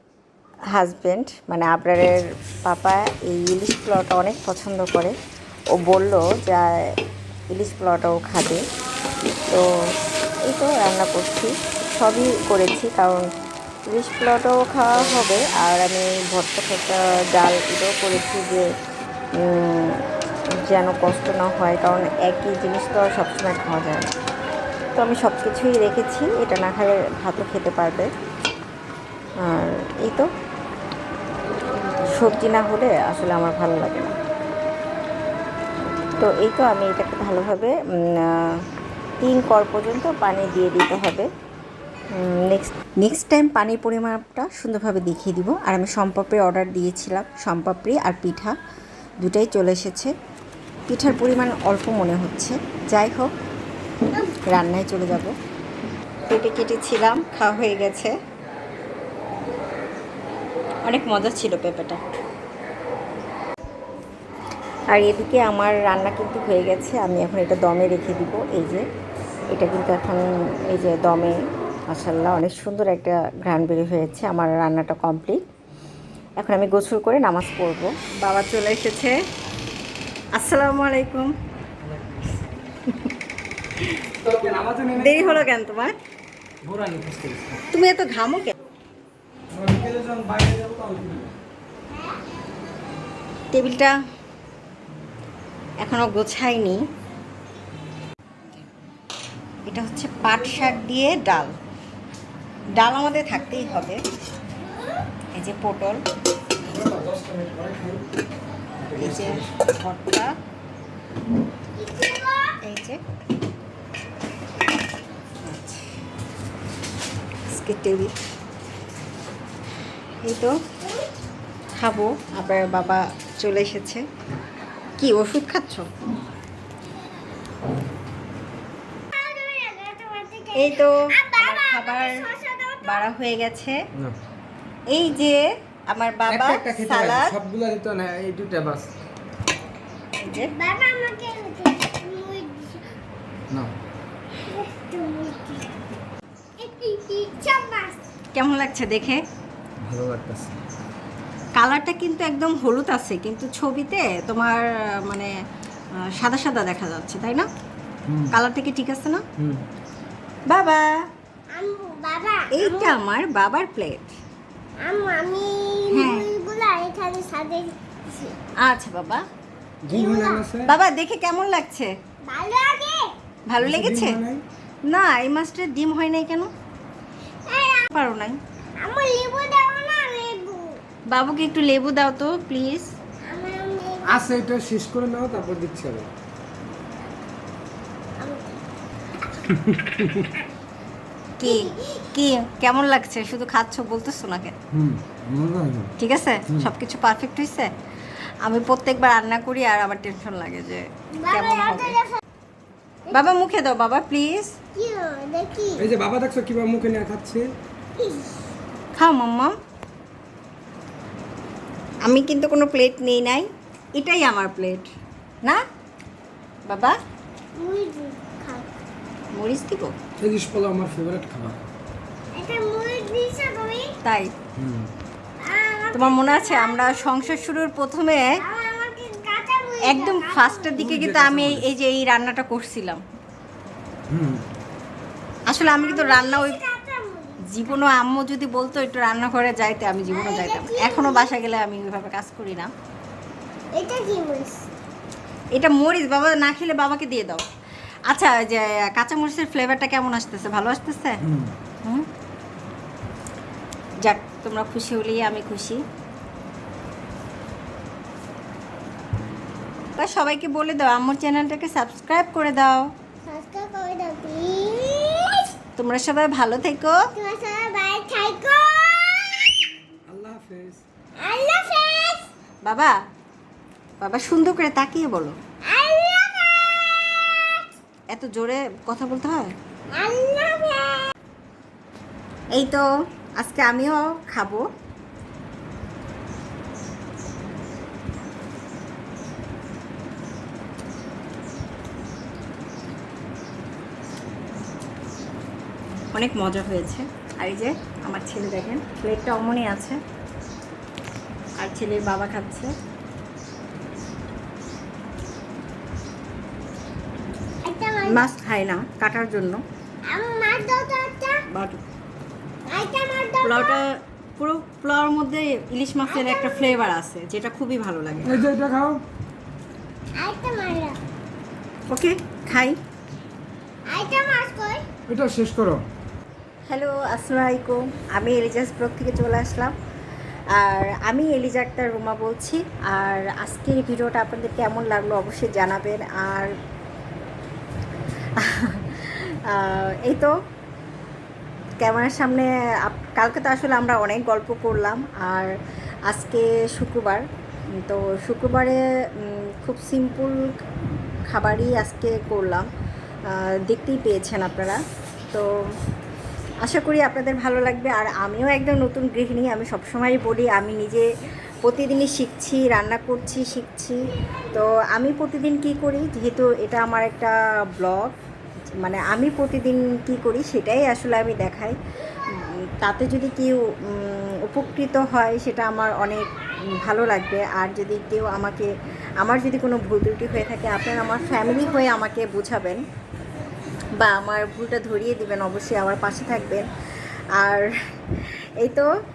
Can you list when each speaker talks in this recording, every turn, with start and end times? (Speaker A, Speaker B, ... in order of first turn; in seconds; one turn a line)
Speaker A: 0.7-5.2
Speaker A: 5.7-7.0
Speaker A: 7.5-8.6
Speaker A: 10.5-13.2
Speaker A: 13.9-18.7
Speaker A: 19.4-20.0
Speaker A: 20.6-24.1
Speaker A: 24.9-28.1
Speaker A: 29.4-30.3
Speaker A: 32.0-34.1
Speaker A: 36.1-38.6
Speaker A: 39.2-41.3
Speaker A: 42.1-48.5
Speaker A: 49.2-50.1
Speaker A: 50.9-53.3
Speaker A: 54.5-55.3
Speaker A: 56.3-58.1
Speaker A: 60.9-62.0
Speaker A: 64.9-68.8
Speaker A: 69.5-71.4
Speaker A: 71.9-75.4
Speaker A: 76.4-79.2
Speaker A: 80.3-81.3
Speaker B: 84.2-85.4
Speaker A: 84.9-85.9
Speaker B: 86.6-87.6
Speaker A: 87.7-88.5
Speaker B: 89.5-91.3
Speaker A: 93.5-93.9
Speaker A: 95.8-96.8
Speaker A: 99.7-101.5
Speaker A: 102.8-104.0
Speaker A: 105.3-106.0
Speaker B: 106.7-108.0
Speaker B: 108.8-109.5
Speaker A: 108.9-110.3
Speaker C: 111.8-112.6
Speaker A: 112.6-113.0
Speaker A: 115.4-115.9
Speaker A: 117.5-118.1
Speaker A: 120.2-120.6
Speaker A: 121.8-124.0
Speaker A: 125.0-125.9
Speaker C: 129.1-133.1
Speaker A: 130.5-132.3
Speaker A: 132.8-133.8
Speaker A: 134.9-137.3
Speaker B: 136.3-138.9
Speaker A: 140.2-140.5
Speaker C: 140.3-142.8
Speaker C: 144.5-145.8
Speaker C: 146.6-148.0
Speaker A: 148.3-149.2
Speaker B: 149.8-150.6
Speaker A: 151.6-155.3
Speaker A: 156.0-157.5
Speaker B: 158.1-158.3
Speaker A: 158.3-159.2
Speaker B: 159.4-159.6
Speaker A: 160.5-160.9
Speaker C: 161.5-163.0
Speaker A: 162.5-164.1
Speaker C: 164.8-168.3
Speaker A: 165.9-166.3
Speaker A: 168.6-169.2
Speaker B: 169.8-170.7
Speaker C: 169.9-170.5
Speaker A: 170.6-171.9
Speaker C: 172.2-173.1
Speaker A: 173.5-174.2
Speaker B: 173.6-174.4
Speaker A: 174.9-176.5
Speaker C: 177.5-177.9
Speaker A: 177.9-178.4
Speaker C: 178.8-180.8
Speaker A: 181.1-182.9
Speaker C: 183.2-184.2
Speaker B: 184.0-186.1
Speaker C: 188.2-188.6
Speaker B: 189.5-190.2
Speaker A: 191.4-194.5
Speaker C: 191.4-191.9
Speaker B: 194.7-195.9
Speaker A: 196.0-197.7
Speaker A: 198.4-202.0
Speaker C: 201.2-202.2
Speaker A: 203.1-204.5
Speaker C: 204.8-205.9
Speaker B: 205.8-207.5
Speaker C: 208.0-208.4
Speaker A: 208.9-209.5
Speaker A: 212.0-214.9
Speaker A: 216.7-217.0
Speaker C: 217.6-218.7
Speaker A: 219.3-219.9
Speaker B: 220.2-221.6
Speaker C: 222.3-224.0
Speaker A: 224.0-224.3
Speaker B: 224.6-224.9
Speaker C: 225.4-227.5
Speaker A: 225.9-228.4
Speaker C: 228.4-230.7
Speaker A: 229.8-233.0
Speaker B: 230.8-231.6
Speaker B: 234.1-234.4
Speaker A: 235.5-236.6
Speaker C: 235.6-237.4
Speaker A: 237.4-242.7
Speaker C: 240.1-241.3
Speaker C: 243.7-244.7
Speaker A: 245.5-247.4
Speaker A: 248.1-251.2
Speaker A: 254.0-255.8
Speaker A: 260.0-262.9
Speaker C: 263.2-265.5
Speaker A: 265.8-267.1
Speaker C: 267.1-269.7
Speaker B: 270.1-270.8
Speaker C: 271.2-272.3
Speaker A: 272.6-272.9
Speaker A: 274.0-275.4
Speaker C: 275.6-277.7
Speaker A: 278.1-279.5
Speaker C: 279.9-281.1
Speaker A: 282.5-282.8
Speaker A: 283.4-284.6
Speaker A: 296.1-300.0
Speaker A: 301.6-302.8
Speaker C: 307.6-308.3
Speaker A: 308.1-309.6
Speaker C: 310.1-311.4
Speaker A: 311.5-311.8
Speaker C: 312.7-313.8
Speaker A: 313.4-318.4
Speaker C: 316.1-316.9
Speaker B: 318.2-319.0
Speaker C: 320.1-321.0
Speaker A: 321.9-322.8
Speaker C: 323.9-324.8
Speaker B: 325.1-325.8
Speaker A: 326.7-329.7
Speaker A: 330.6-336.5
Speaker A: 338.4-340.3
Speaker A: 341.8-345.5
Speaker A: 346.1-347.2
Speaker A: 347.8-350.5
Speaker A: 351.3-352.7
Speaker A: 353.3-354.8
Speaker A: 356.6-361.1
Speaker A: 361.6-368.1
Speaker A: 368.8-371.8
Speaker A: 372.3-378.7
Speaker A: 379.2-382.8
Speaker A: 384.0-386.7
Speaker A: 387.4-387.7
Speaker A: 388.6-388.9